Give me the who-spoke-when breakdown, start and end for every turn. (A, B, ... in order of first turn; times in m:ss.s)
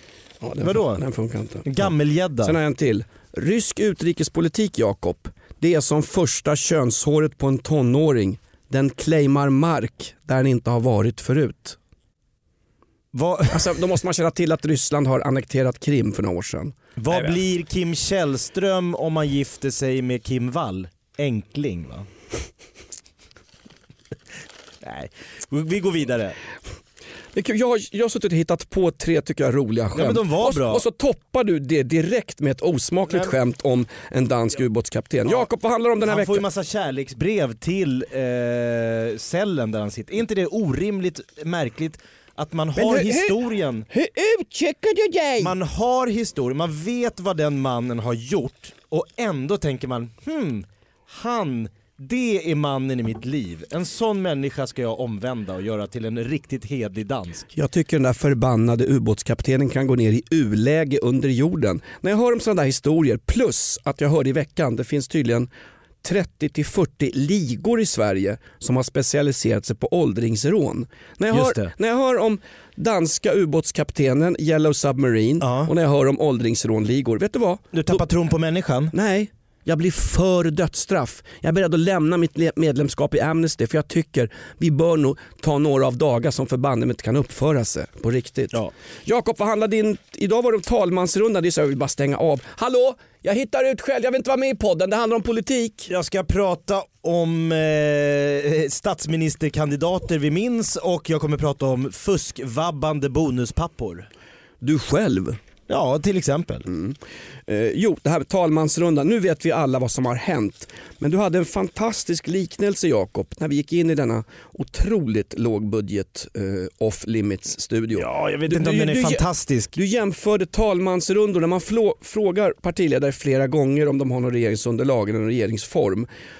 0:00.4-0:11.8 A
0:00.6-0:01.0 B
0:01.6-0:02.6 B
0:13.1-0:13.9 B
0:13.5-0:17.4 A
0:17.0-0:22.1 B
0:24.8-0:26.4 B
0:27.3-0:36.4 A
0:30.0-0:30.8 B
0:33.1-0:33.4 B
0:36.0-0:43.9 B
0:42.8-0:45.5 A
0:45.4-0:57.5 B
0:57.5-1:05.5 A
1:06.0-1:18.0 A
1:11.3-1:11.7 B
1:15.4-1:15.7 B
1:17.7-1:18.9 B
1:18.9-1:35.9 A
1:35.9-1:44.1 B
1:44.6-1:45.4 A
1:45.7-1:46.7 B
1:46.7-2:06.1 A
1:58.0-1:59.8 B